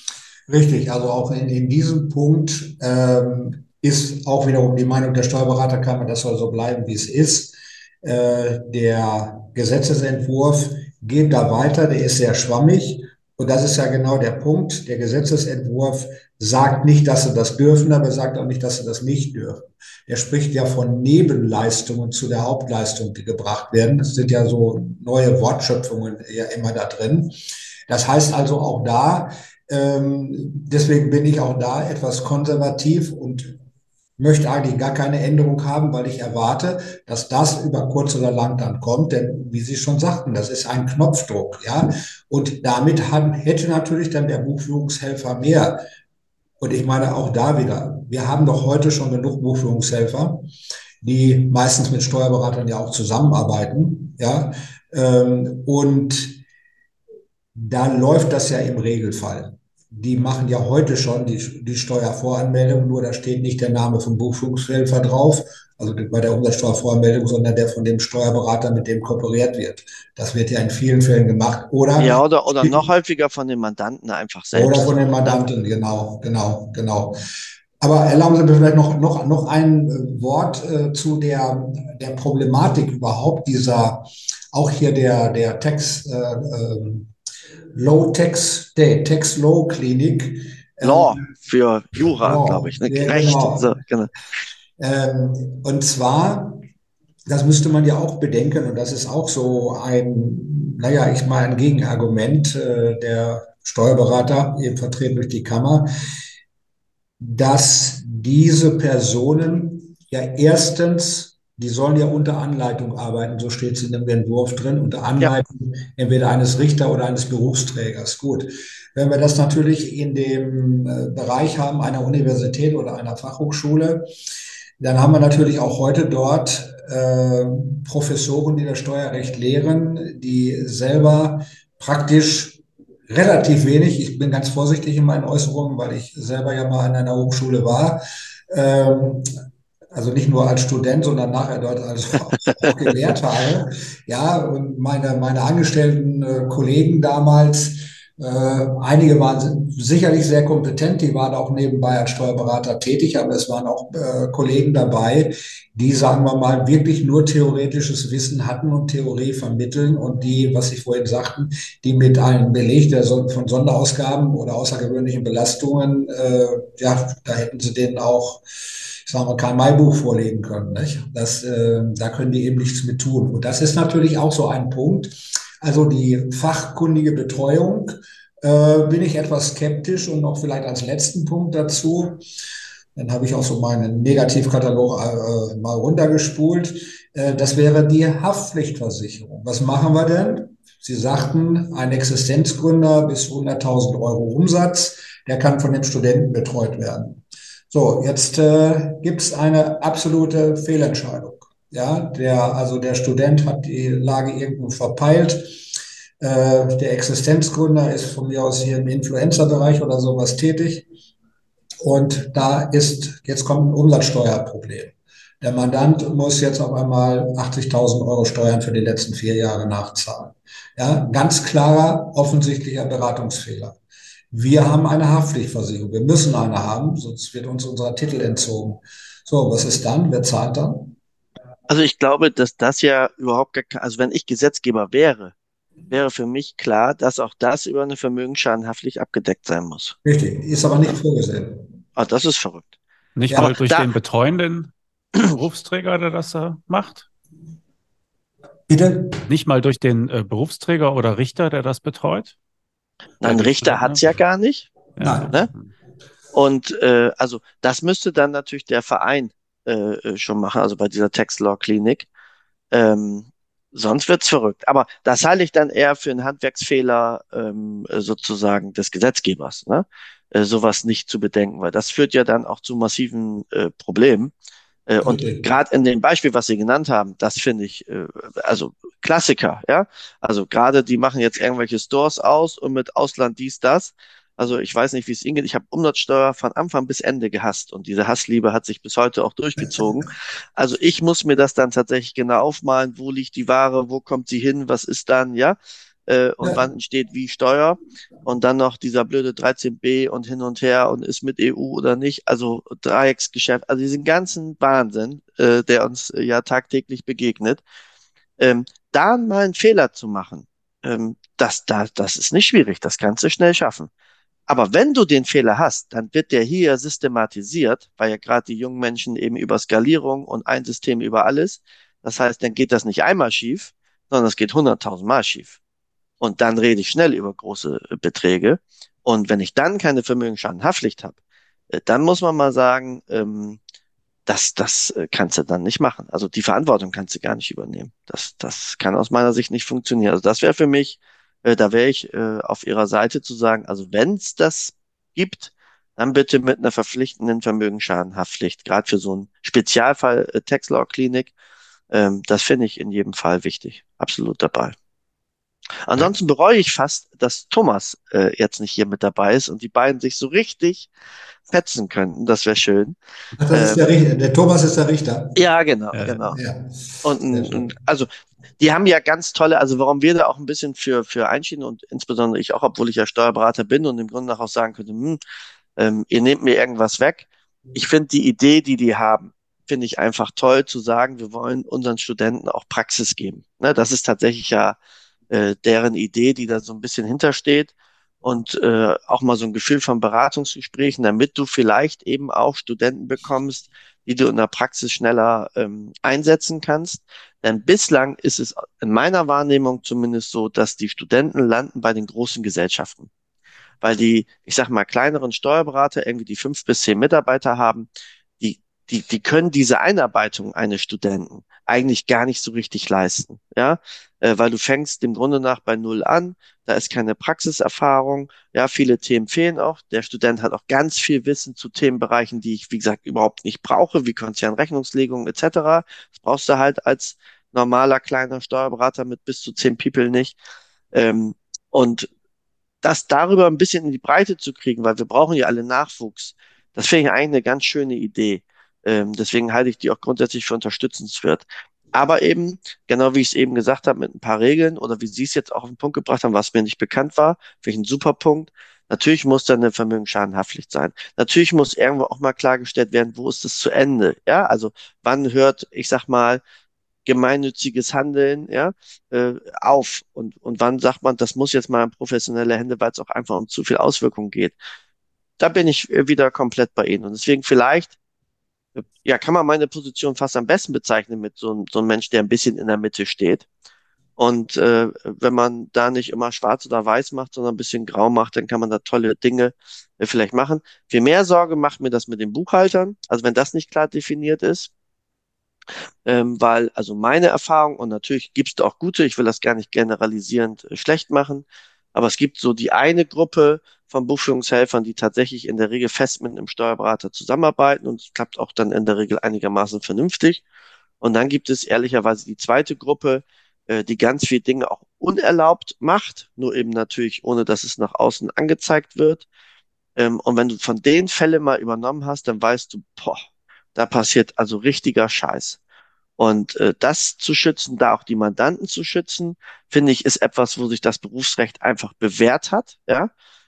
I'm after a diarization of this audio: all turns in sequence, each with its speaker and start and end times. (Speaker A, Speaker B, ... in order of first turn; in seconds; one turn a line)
Speaker A: 0.5-27.4
Speaker A: 27.9-33.5
Speaker A: 34.2-45.8
Speaker A: 46.6-50.5
Speaker A: 51.0-56.4
Speaker A: 57.5-72.8
Speaker B: 72.0-75.4
Speaker A: 74.5-77.2
Speaker A: 77.8-87.1
Speaker A: 87.7-91.3
Speaker B: 90.8-94.1
Speaker A: 92.0-93.7
Speaker A: 94.8-96.6
Speaker A: 97.3-105.9
Speaker A: 107.2-124.0
Speaker A: 124.8-139.3
Speaker A: 139.9-168.4
Speaker A: 169.1-182.2
Speaker A: 182.9-210.9
Speaker A: 211.8-223.8
Speaker A: 224.3-230.9
Speaker B: 231.7-235.3
Speaker B: 235.9-239.9
Speaker A: 240.1-241.7
Speaker B: 242.0-242.7
Speaker C: 243.2-244.7
Speaker A: 243.3-243.6
Speaker B: 243.4-243.8
Speaker C: 245.2-247.1
Speaker A: 248.7-249.2
Speaker C: 249.3-252.4
Speaker B: 253.2-254.7
Speaker C: 253.2-254.1
Speaker C: 255.0-255.7
Speaker A: 255.0-255.3
Speaker B: 256.3-262.1
Speaker B: 262.7-274.3
Speaker B: 274.9-307.6
Speaker A: 275.0-275.4
Speaker A: 289.6-290.1
Speaker B: 308.4-313.9
Speaker B: 314.5-325.6
Speaker B: 326.2-331.1
Speaker B: 331.7-333.6
Speaker B: 334.3-351.3
Speaker B: 351.9-354.8
Speaker B: 355.9-360.9
Speaker B: 361.5-363.0
Speaker A: 363.4-365.4
Speaker B: 363.5-363.9
Speaker B: 365.4-366.4
Speaker C: 365.9-366.2
Speaker A: 366.3-367.6
Speaker B: 367.0-368.1
Speaker B: 368.6-375.2
Speaker B: 375.8-384.8
Speaker B: 385.3-403.1
Speaker B: 403.8-407.9
Speaker B: 408.4-430.4
Speaker B: 430.9-432.1
Speaker B: 432.8-456.4
Speaker B: 457.1-464.6
Speaker B: 465.4-467.9
Speaker B: 468.8-473.5
Speaker B: 474.2-484.7
Speaker B: 486.1-500.4
Speaker B: 501.0-509.3
Speaker B: 510.0-513.2
Speaker B: 513.8-515.6
Speaker B: 516.2-523.1